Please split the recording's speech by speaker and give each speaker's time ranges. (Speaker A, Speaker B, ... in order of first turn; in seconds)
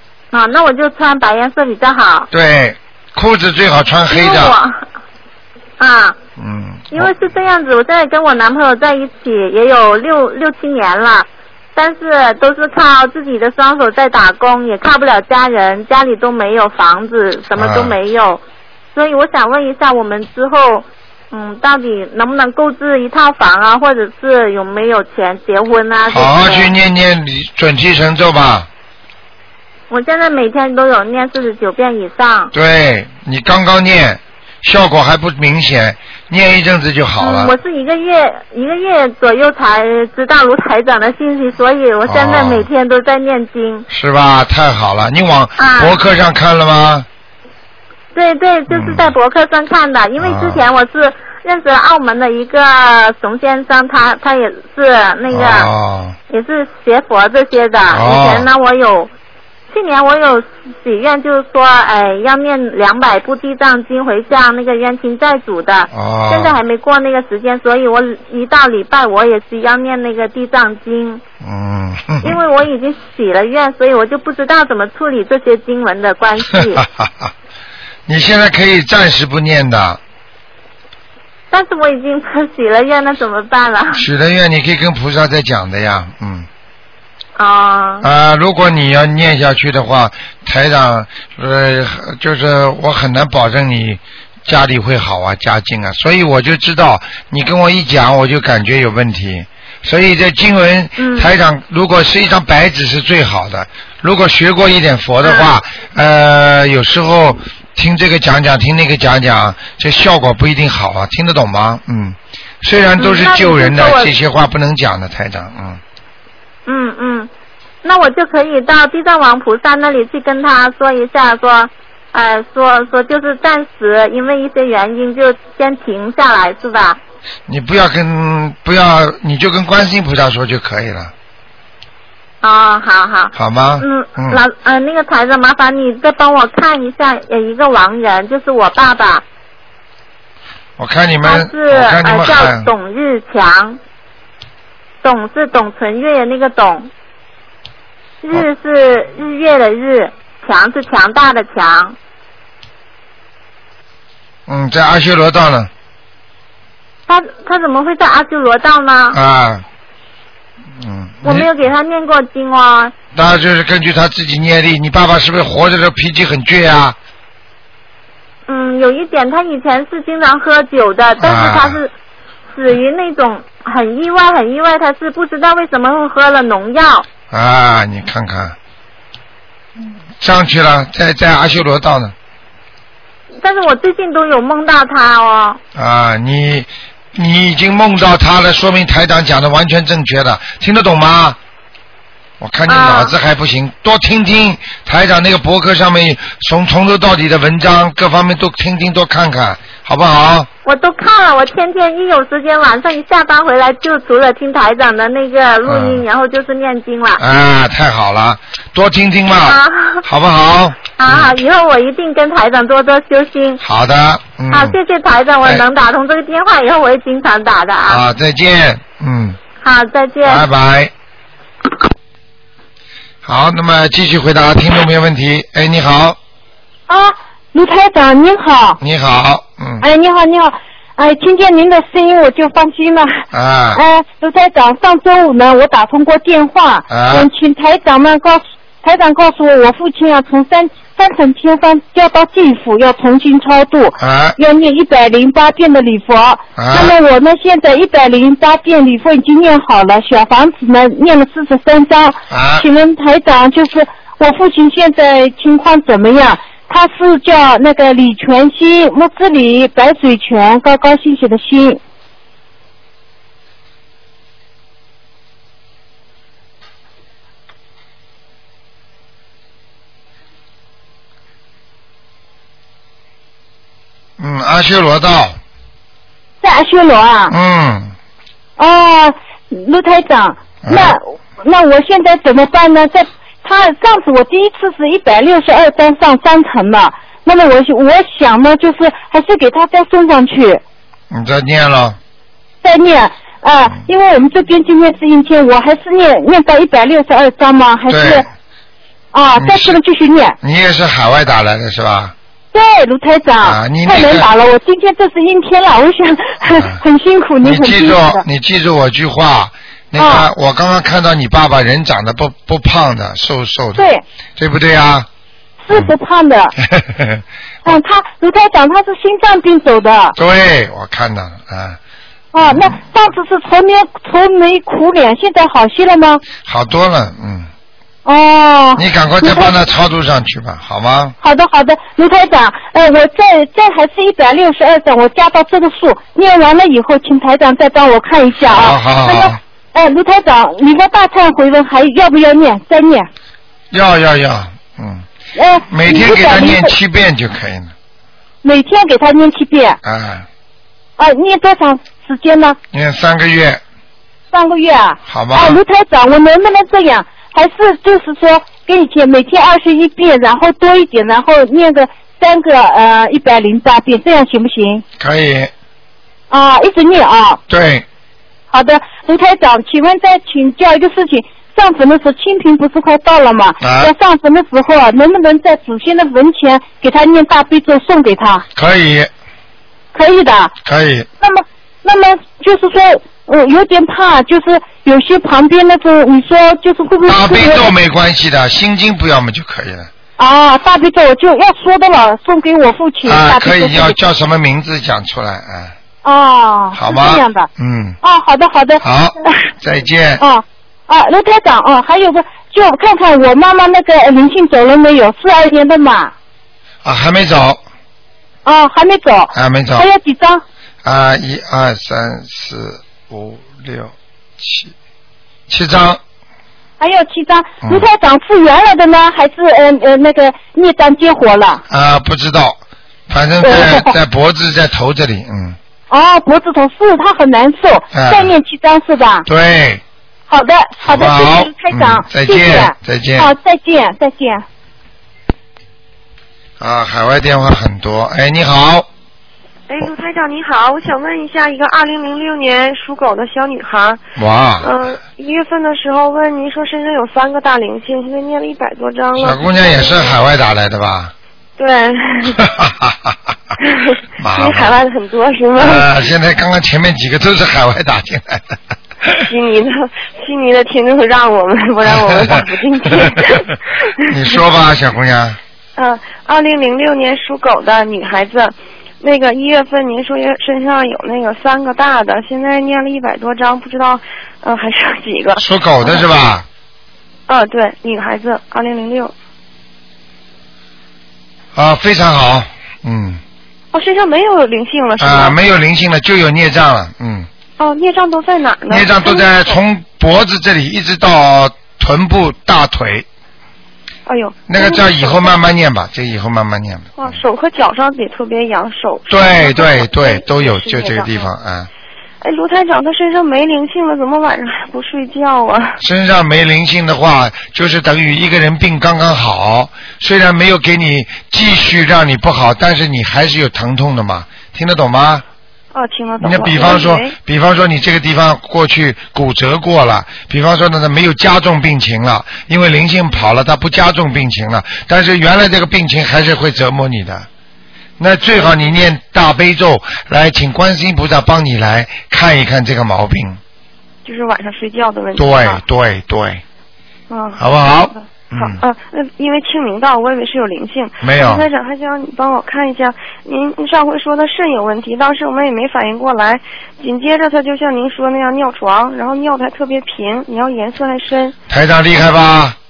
Speaker A: 0.3-2.3, 4.1-4.8, 5.8-6.2, 6.9-18.4, 18.9-26.7, 29.9-32.5, 37.2-43.9, 45.6-46.0, 48.1-55.7, 56.3-59.1, 59.7-71.2, 72.2-76.8, 81.5-84.0, 87.4-88.1, 101.0-101.3, 105.2-105.5, 113.0-114.1, 116.7-117.3, 117.8-127.0, 132.4-139.2, 141.2-143.8, 145.0-146.9, 148.2-152.0, 157.1-159.2, 161.2-162.9, 168.5-171.9, 172.5-177.1, 183.4-185.6, 192.7-193.1, 200.7-207.2, 209.4-210.0, 211.0-213.6, 214.5-218.0, 219.6-220.4
Speaker B: 2.3-4.6, 6.4-7.1, 17.6-17.9, 26.1-28.7, 32.5-37.5, 42.0-42.7, 43.9-47.1, 48.7-49.1, 50.2-50.6, 55.3-56.1, 57.9-58.5, 65.9-66.6, 71.4-72.4, 76.5-77.3, 78.1-80.0, 83.9-86.5, 88.0-115.8, 127.5-131.1, 133.4-134.4, 140.8-142.7, 154.5-155.7, 159.1-159.7, 160.8-161.5, 163.1-167.0, 171.2-171.8, 177.3-178.6, 180.2-182.1, 185.8-191.4, 192.4-200.5, 205.7-206.0, 207.2-211.3, 213.6-214.8, 217.9-219.4, 220.2-220.9, 223.2-226.2, 228.8-229.8, 233.3-233.8, 236.9-237.3, 244.0-244.4, 246.6-246.9, 252.3-252.7, 274.2-275.4, 277.3-277.9, 280.6-281.0, 291.1-292.0, 297.9-298.3, 299.4-299.8, 300.4-302.1, 303.4-304.3, 306.5-306.8, 307.4-315.1, 316.6-317.8, 320.2-321.8, 322.4-322.8, 326.4-327.5, 328.8-331.1, 338.4-339.4, 343.7-345.1, 345.7-347.7, 349.8-350.3, 352.7-353.6, 355.1-355.6, 365.0-365.5, 367.5-367.9, 373.6-373.9, 378.6-379.1, 380.6-381.1, 387.1-389.9, 393.1-395.8, 396.7-398.0, 398.8-400.2, 406.8-407.6, 409.3-409.9, 410.8-414.7, 415.5-416.0, 421.7-425.6, 427.9-428.3, 429.3-429.8, 430.8-433.3, 436.6-438.9, 444.2-444.7, 449.2-451.1, 452.3-453.2, 454.2-454.8, 455.6-459.2, 461.9-462.4, 464.1-465.4, 475.4-476.5, 481.6-483.2, 485.0-487.3, 488.7-493.1, 494.5-497.2, 499.1-501.7, 505.8-515.2, 516.2-527.3, 528.0-533.4, 535.2-536.4, 537.4-538.6, 541.0-541.5, 551.5-552.6
Speaker C: 226.9-228.8, 229.8-261.8, 276.4-277.4, 278.6-290.6, 292.6-298.3, 299.1-300.4, 302.5-308.2, 310.0-310.3, 313.8-314.0, 315.6-316.6, 317.6-320.2, 322.3-326.2, 328.1-329.5, 331.2-343.1, 345.4-346.7, 348.4-349.8, 351.0-352.6, 354.3-364.8, 366.3-367.4, 368.5-378.5, 379.9-380.5, 381.2-387.7, 390.2-394.0, 396.0-397.5, 398.0-399.3, 400.2-406.1, 408.4-410.4, 416.8-421.6, 423.4-423.9, 425.9-429.3, 430.3-434.4
Speaker D: 439.7-444.0, 444.6-450.2, 451.6-452.4, 453.6-455.9, 459.1-464.0, 465.8-476.1, 477.3-479.1, 483.7-485.4, 487.6-489.6, 494.1-495.3, 497.0-501.3, 502.2-505.8, 515.7-517.1, 534.0-535.6, 537.1-551.4